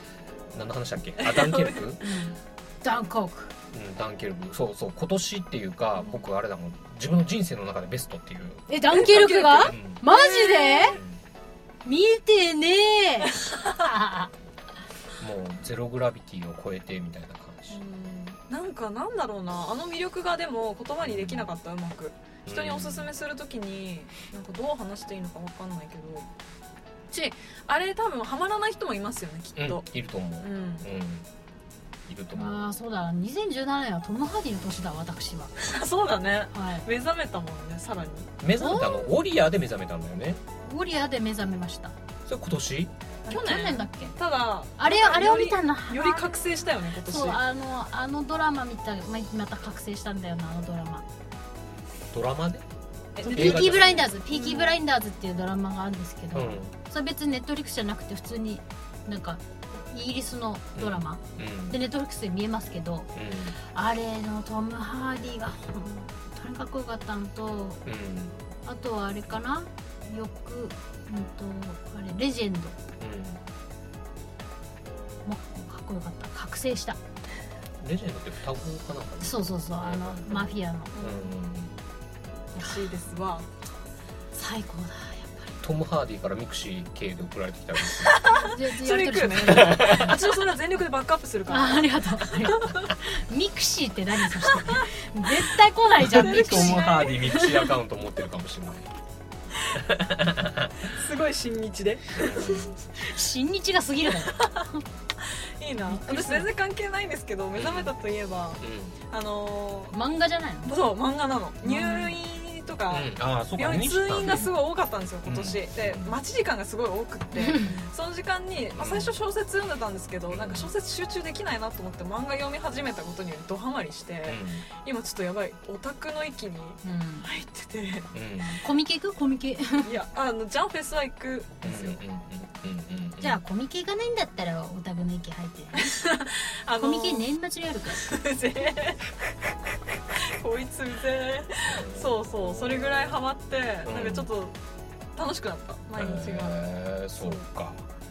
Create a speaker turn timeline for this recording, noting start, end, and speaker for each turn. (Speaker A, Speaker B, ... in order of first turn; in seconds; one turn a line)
Speaker A: 0.5-2.0
Speaker B: 1.2-1.9
Speaker C: 2.0-3.5
Speaker A: 3.7-10.0
Speaker C: 8.7-11.0
Speaker B: 8.9-11.0
Speaker A: 10.9-11.2
Speaker C: 11.8-14.3
Speaker A: 15.2-17.8
Speaker B: 17.7-26.3
Speaker A: 21.0-21.5
Speaker A: 22.5-23.1
Speaker B: 27.1-29.9
Speaker A: 29.6-31.3
Speaker B: 30.4-30.9
Speaker A: 32.1-32.6
Speaker C: 32.3-35.5
Speaker B: 35.6-38.3
Speaker C: 36.5-36.9
Speaker A: 38.4-40.4
Speaker C: 38.6-39.1
Speaker C: 40.6-42.0
Speaker A: 42.3-42.9
Speaker C: 43.3-44.1
Speaker B: 43.3-47.4
Speaker C: 44.8-46.5
Speaker C: 47.0-51.0
Speaker A: 52.1-52.6
Speaker B: 53.2-54.8
Speaker A: 53.2-54.0
Speaker C: 53.2-63.1
Speaker A: 56.3-56.7
Speaker A: 60.8-61.8
Speaker A: 63.1-63.6
Speaker C: 63.6-67.8
Speaker A: 67.8-68.4
Speaker C: 68.6-72.8
Speaker A: 73.0-73.4
Speaker C: 75.2-77.0
Speaker A: 77.8-81.8
Speaker C: 79.2-81.0
Speaker B: 81.0-81.3
Speaker B: 82.5-83.5
Speaker C: 84.3-85.6
Speaker A: 85.6-88.5
Speaker B: 87.9-92.9
Speaker C: 88.3-90.2
Speaker A: 89.4-90.3
Speaker C: 91.5-97.7
Speaker B: 94.4-94.9
Speaker A: 96.0-98.9
Speaker B: 96.1-97.6
Speaker A: 99.7-100.7
Speaker B: 100.8-102.8
Speaker A: 102.2-102.8
Speaker C: 102.9-104.7
Speaker B: 104.4-104.7
Speaker B: 105.2-110.0
Speaker C: 105.8-106.5
Speaker A: 107.5-107.9
Speaker A: 108.6-109.0
Speaker C: 109.9-110.7
Speaker B: 110.7-128.1
Speaker C: 111.6-112.1
Speaker A: 112.9-114.5
Speaker A: 115.2-116.2
Speaker C: 117.3-117.7
Speaker A: 117.5-117.9
Speaker A: 118.7-119.1
Speaker A: 120.3-120.7
Speaker A: 124.2-124.7
Speaker C: 126.8-127.3
Speaker A: 128.1-128.6
Speaker C: 128.6-129.9
Speaker B: 129.8-132.0
Speaker A: 131.6-133.4
Speaker C: 133.2-136.0
Speaker B: 135.8-137.3
Speaker C: 136.8-138.1
Speaker B: 137.9-139.2
Speaker B: 140.1-144.6
Speaker A: 141.7-143.2
Speaker A: 143.8-144.3
Speaker B: 145.2-146.6
Speaker A: 145.9-147.8
Speaker B: 147.2-147.4